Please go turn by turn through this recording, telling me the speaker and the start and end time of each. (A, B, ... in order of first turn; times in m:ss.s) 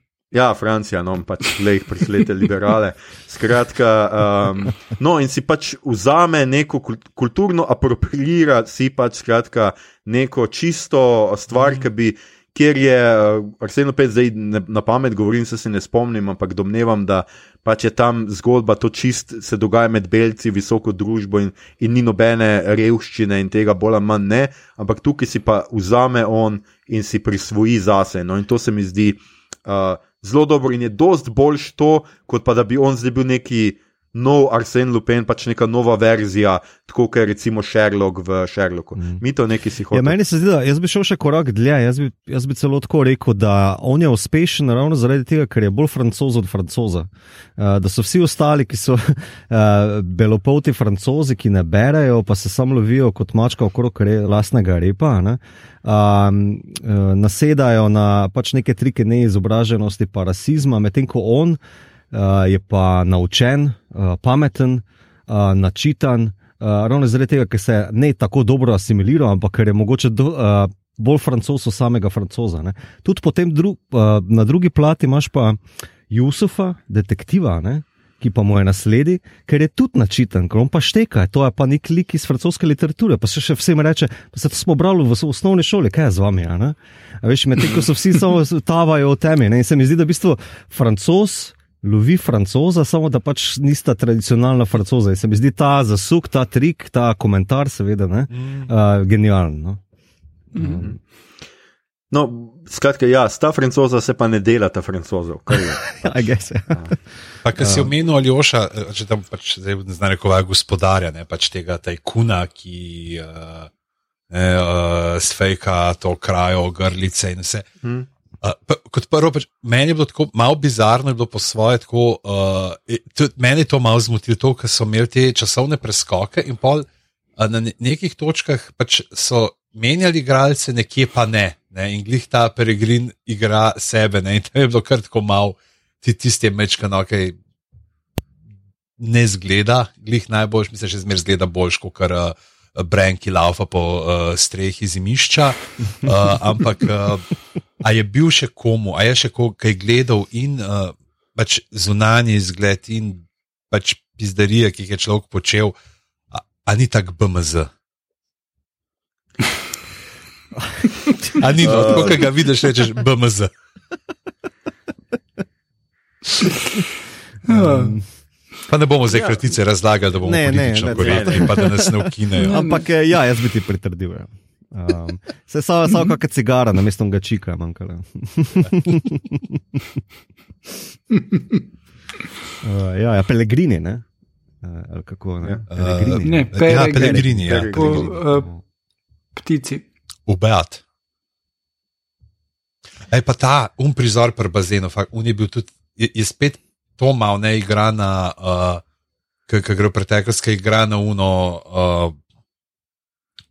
0:00.3-0:40.1 A
0:39.9-1:01.6 B
1:02.1-1:15.6 B
1:16.1-1:39.8 B
1:38.3-1:38.7 C
1:40.5-1:40.8 D
1:40.5-1:40.9 B
1:42.1-1:45.8 A
1:45.9-1:46.9 B
1:47.4-1:53.7 C
1:47.6-1:47.9 B
1:54.3-1:57.6 C
1:58.4-2:06.8 C
2:07.4-2:17.4 C
2:19.0-2:27.3 C
2:27.8-2:35.7 C
2:36.3-2:37.7 C
2:40.6-2:40.9 B
2:41.3-2:43.5 C
2:41.6-2:42.3 A
2:41.7-2:42.1 B
2:47.5-2:48.0 D
2:47.5-2:48.0 B
2:48.7-2:52.7 C
2:49.1-2:49.4 A
2:50.2-2:59.8 B
2:50.9-2:51.6 A
2:52.3-2:52.8 D
3:01.1-3:01.6 D
3:02.6-3:04.0 B
3:04.6-3:07.2 B
3:05.7-3:08.1 C
3:06.2-3:08.5 D
3:07.3-3:08.2 A
3:08.2-3:08.6 B
3:09.4-3:09.8 D
3:10.3-3:10.8 C
3:13.1-3:18.8 C
3:19.5-3:22.1 C